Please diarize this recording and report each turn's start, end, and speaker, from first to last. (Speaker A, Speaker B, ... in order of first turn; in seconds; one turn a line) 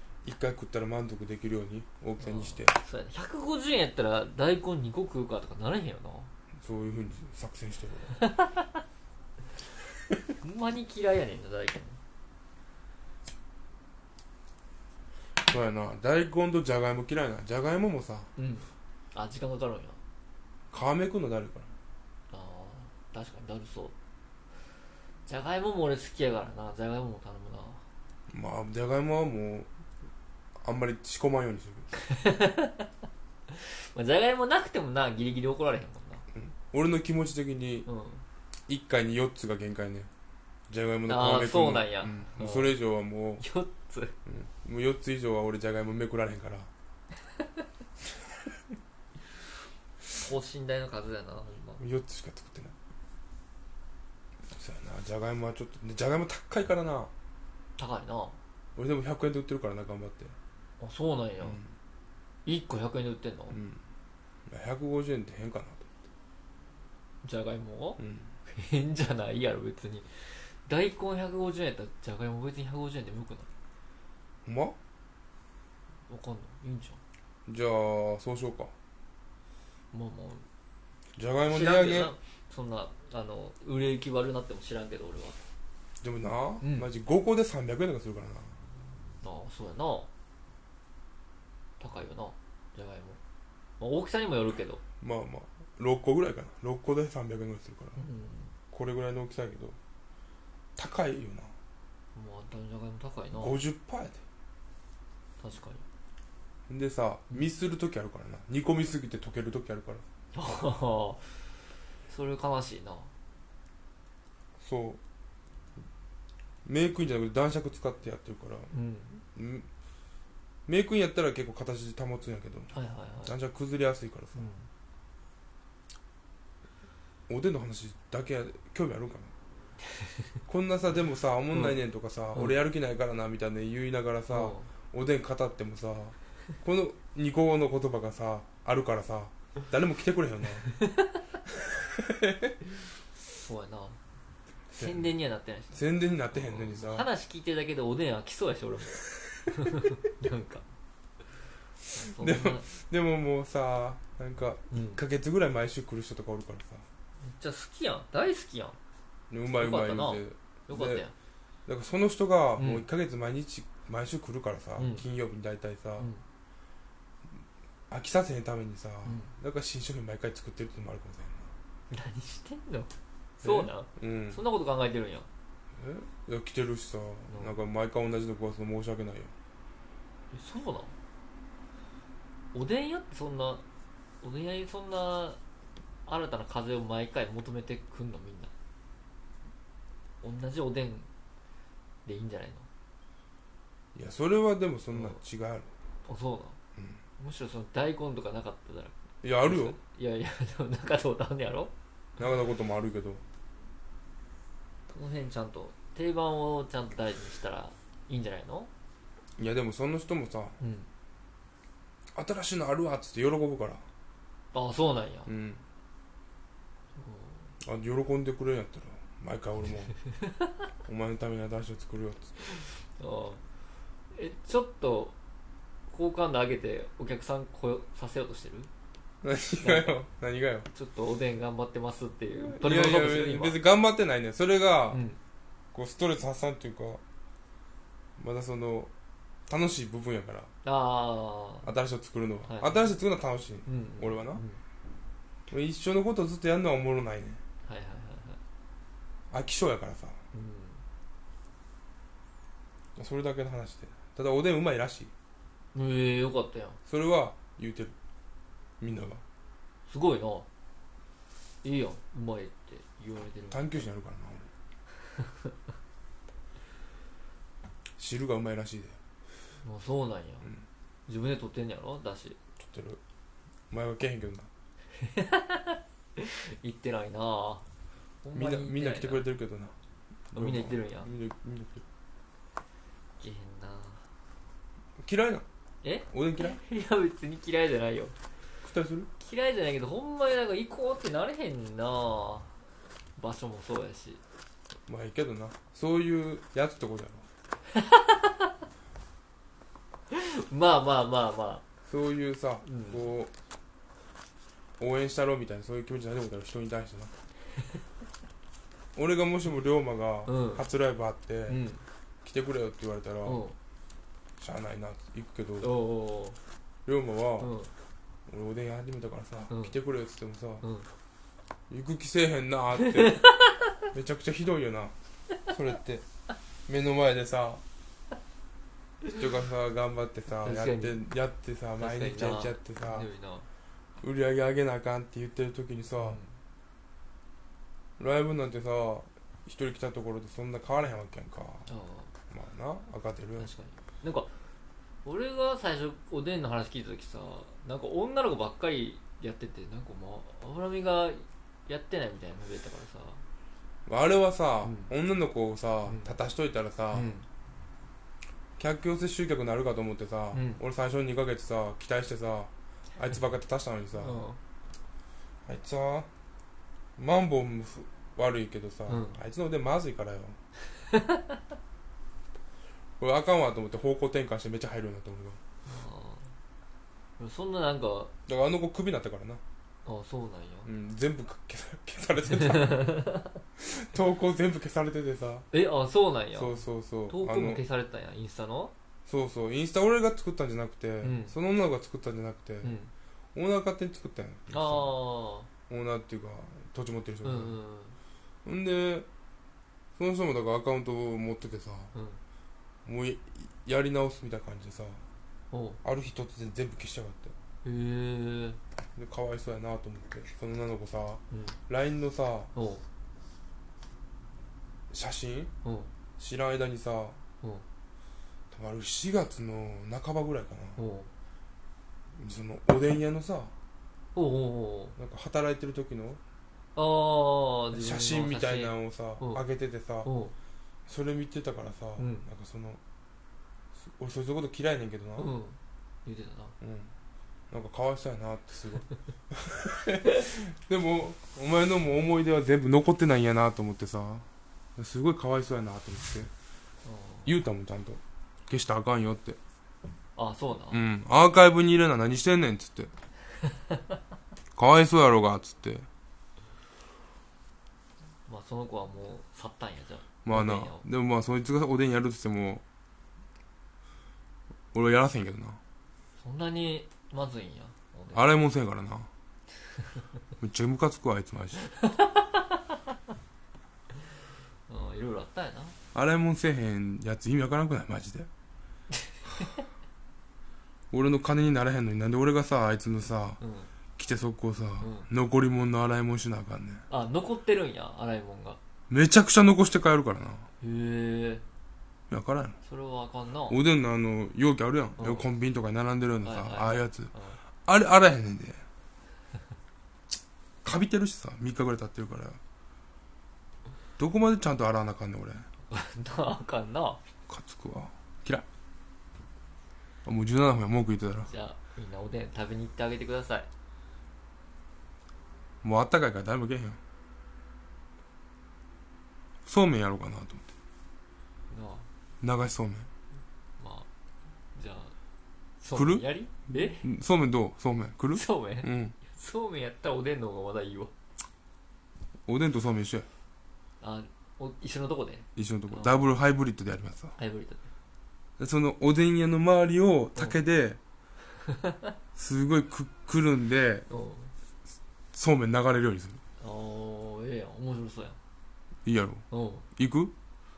Speaker A: 0.2-2.8
Speaker B: 2.2-6.3
Speaker A: 6.6-8.2
Speaker B: 8.3-8.8
Speaker B: 10.4-12.0
Speaker A: 15.4-18.3
Speaker B: 18.4-20.0
Speaker A: 20.7-21.7
Speaker B: 22.3-23.9
Speaker B: 25.2-27.8
Speaker A: 28.3-29.7
Speaker A: 30.6-31.9
Speaker B: 31.9-32.9
Speaker B: 33.5-36.2
Speaker A: 36.3-37.9
Speaker B: 37.9-38.2
Speaker A: 38.7-40.1
Speaker A: 40.7-43.4
Speaker B: 41.1-42.8
Speaker B: 43.4-44.1
Speaker A: 44.2-46.7
Speaker B: 50.1-51.8
Speaker A: 51.8-52.7
Speaker A: 54.5-57.1
Speaker B: 57.8-58.4
Speaker A: 58.8-60.4
Speaker B: 60.8-61.6
Speaker A: 61.4-61.7
Speaker B: 62.4-63.6
Speaker A: 63.5-63.8
Speaker A: 64.5-65.9
Speaker B: 67.2-73.5
Speaker A: 68.0-68.3
Speaker A: 74.5-74.8
Speaker B: 76.1-77.0
Speaker A: 77.5-78.7
Speaker B: 79.9-80.5
Speaker A: 81.2-82.2
Speaker B: 81.5-85.4
Speaker A: 86.0-88.6
Speaker B: 86.6-86.9
Speaker B: 89.2-90.1
Speaker B: 91.8-93.2
Speaker B: 93.8-94.8
Speaker A: 94.9-98.1
Speaker B: 98.0-98.5
Speaker A: 98.7-99.8
Speaker A: 100.8-101.5
Speaker B: 102.1-103.6
Speaker A: 103.4-104.2
Speaker B: 105.4-105.8
Speaker A: 106.7-110.0
Speaker B: 110.3-113.1
Speaker A: 114.6-115.0
Speaker A: 116.6-118.7
Speaker B: 118.7-119.2
Speaker A: 119.2-119.7
Speaker A: 120.7-124.5
Speaker B: 122.7-123.3
Speaker B: 124.3-124.7
Speaker A: 127.3-129.3
Speaker A: 130.4-140.7
Speaker B: 131.5-131.8
Speaker B: 132.3-132.6
Speaker B: 134.3-134.7
Speaker A: 141.9-142.5
Speaker B: 143.5-144.0
Speaker A: 144.7-145.1
Speaker B: 144.8-150.7
Speaker A: 145.7-147.1
Speaker B: 151.9-152.7
Speaker A: 151.9-156.8
Speaker B: 154.7-155.0
Speaker B: 157.2-158.8
Speaker A: 159.3-161.1
Speaker B: 159.5-161.1
Speaker A: 161.7-166.1
Speaker B: 162.6-162.9
Speaker B: 164.8-165.1
Speaker A: 167.9-171.5
Speaker B: 169.0-169.3
Speaker B: 171.9-175.3
Speaker A: 173.4-174.4
Speaker A: 175.8-179.3
Speaker B: 177.3-177.6
Speaker B: 180.3-180.9
Speaker B: 182.5-183.6
Speaker B: 184.2-185.4
Speaker B: 186.1-188.5
Speaker B: 190.2-191.1
Speaker B: 192.0-192.7
Speaker A: 193.9-195.7
Speaker B: 194.9-195.2
Speaker B: 196.0-196.6
Speaker B: 197.2-201.7
Speaker A: 199.2-199.8
Speaker A: 202.2-203.2
Speaker B: 204.9-208.7
Speaker A: 209.4-210.6
Speaker B: 210.6-210.9
Speaker A: 212.1-213.8
Speaker B: 214.5-215.3
Speaker A: 215.2-215.6
Speaker B: 216.9-217.5
Speaker A: 217.6-220.0
Speaker A: 220.8-222.5
Speaker B: 222.4-223.4
Speaker B: 224.1-225.2
Speaker B: 225.9-228.7
Speaker A: 229.2-230.7
Speaker B: 229.6-230.0
Speaker B: 230.7-233.6
Speaker A: 232.4-235.1
Speaker B: 234.9-235.2
Speaker A: 235.7-237.0
Speaker A: 238.2-238.9
Speaker A: 239.5-240.5
Speaker B: 240.6-241.7
Speaker A: 241.6-244.4
Speaker B: 242.4-243.0
Speaker B: 243.7-244.6
Speaker A: 245.5-247.4
Speaker B: 247.6-248.4
Speaker A: 249.3-250.2
Speaker B: 250.3-250.8
Speaker A: 252.9-255.1
Speaker B: 255.7-256.8
Speaker A: 256.8-257.9
Speaker A: 258.8-259.2
Speaker B: 259.9-260.5
Speaker B: 261.6-263.9
Speaker A: 263.5-264.5
Speaker A: 268.0-269.0
Speaker B: 269.6-270.5
Speaker B: 271.1-272.4
Speaker A: 272.6-273.0
Speaker A: 273.7-274.5
Speaker B: 274.9-277.7
Speaker B: 278.2-279.3
Speaker A: 278.3-279.7
Speaker A: 280.3-281.8
Speaker B: 280.3-281.1
Speaker B: 283.2-284.1
Speaker A: 285.0-285.4
Speaker B: 285.8-288.1
Speaker A: 286.1-286.6
Speaker A: 288.6-289.1
Speaker B: 289.2-292.6
Speaker B: 293.1-294.2
Speaker A: 294.9-297.3
Speaker B: 297.7-298.5
Speaker B: 300.1-301.6
Speaker A: 301.8-303.3
Speaker B: 302.6-303.0
Speaker A: 304.8-307.1
Speaker A: 308.9-311.6
Speaker B: 310.2-310.6
Speaker B: 311.5-311.8
Speaker A: 312.2-313.4
Speaker B: 313.2-313.6
Speaker A: 314.4-315.8
Speaker B: 315.6-316.4
Speaker A: 316.9-317.5
Speaker B: 317.4-317.7
Speaker A: 318.3-320.6
Speaker B: 319.5-319.8
Speaker B: 320.6-320.9
Speaker A: 321.7-323.3
Speaker B: 322.7-323.7
Speaker A: 323.9-324.9
Speaker A: 325.4-326.0
Speaker A: 326.6-327.6
Speaker A: 329.1-333.1
Speaker B: 330.4-331.0
Speaker B: 331.8-333.5
Speaker A: 334.0-336.2
Speaker B: 336.0-336.3
Speaker A: 338.0-341.7
Speaker B: 341.7-342.1
Speaker A: 342.3-343.5
Speaker B: 343.4-344.3
Speaker B: 345.0-353.2
Speaker A: 353.9-357.2
Speaker B: 354.6-354.9
Speaker B: 355.8-356.1
Speaker B: 356.9-357.2
Speaker A: 358.6-364.3
Speaker B: 360.3-360.6
Speaker B: 364.0-364.4
Speaker A: 365.4-366.1
Speaker A: 367.0-370.4
Speaker B: 368.9-369.2
Speaker B: 370.8-371.2
Speaker A: 373.0-375.4
Speaker B: 375.6-376.3
Speaker B: 377.2-378.1
Speaker A: 378.2-379.4
Speaker B: 379.8-380.7
Speaker A: 380.6-383.0
Speaker B: 382.4-383.3
Speaker A: 383.5-385.5
Speaker B: 385.5-388.7
Speaker A: 386.3-387.6
Speaker A: 389.1-392.8
Speaker B: 391.0-391.3
Speaker B: 392.6-392.9
Speaker A: 393.3-395.0
Speaker B: 394.5-395.5
Speaker A: 395.6-397.6
Speaker B: 397.2-398.0
Speaker A: 398.4-399.1
Speaker A: 399.9-401.9
Speaker B: 401.9-402.2
Speaker A: 402.8-405.0
Speaker B: 405.5-405.8
Speaker A: 405.8-407.4
Speaker B: 407.6-408.6
Speaker A: 408.9-412.5
Speaker B: 411.3-411.6
Speaker B: 412.5-412.8
Speaker A: 414.9-415.5
Speaker B: 415.6-415.9
Speaker A: 416.2-417.2
Speaker A: 418.5-420.8
Speaker B: 420.8-421.1
Speaker A: 422.1-423.5
Speaker B: 424.1-425.0
Speaker A: 424.9-426.2
Speaker B: 426.7-429.4
Speaker A: 427.7-430.1
Speaker B: 430.0-430.3
Speaker A: 430.9-432.8
Speaker B: 432.0-432.3
Speaker A: 433.8-435.3
Speaker B: 435.2-436.6
Speaker A: 436.6-436.9
Speaker A: 437.5-446.3
Speaker B: 446.8-447.3
Speaker A: 447.2-449.4
Speaker B: 450.1-450.8
Speaker A: 450.7-452.9
Speaker A: 454.6-455.9
Speaker B: 458.2-460.9
Speaker A: 460.2-462.6
Speaker A: 464.7-465.6
Speaker B: 466.2-468.3
Speaker A: 468.1-469.1
Speaker A: 470.4-471.6
Speaker B: 474.7-475.8
Speaker A: 475.9-478.3
Speaker A: 480.9-483.4
Speaker B: 483.4-483.7
Speaker A: 483.9-486.8
Speaker B: 484.8-485.1
Speaker B: 486.9-488.6
Speaker A: 488.9-490.5
Speaker B: 490.6-491.4
Speaker A: 492.1-492.6
Speaker B: 492.6-493.6
Speaker A: 493.5-498.6
Speaker B: 494.9-495.3
Speaker B: 496.2-497.4
Speaker A: 500.6-502.4
Speaker A: 504.0-505.5
Speaker B: 505.7-507.0
Speaker A: 507.3-508.4
Speaker A: 510.0-511.3
Speaker B: 511.2-513.5
Speaker A: 515.6-516.8
Speaker A: 519.5-520.5
Speaker B: 521.5-521.9
Speaker A: 522.2-522.9
Speaker B: 523.6-523.9
Speaker B: 524.5-525.0
Speaker B: 525.6-526.9
Speaker A: 525.7-529.1
Speaker B: 528.1-530.9
Speaker A: 532.3-533.1
Speaker B: 533.8-536.3
Speaker A: 535.3-537.2
Speaker B: 537.2-537.7
Speaker A: 538.4-540.8
Speaker B: 541.5-541.7
Speaker A: 542.1-543.9
Speaker B: 543.9-544.3
Speaker A: 545.1-546.2
Speaker B: 546.4-548.2
Speaker A: 548.8-550.1
Speaker B: 549.3-549.7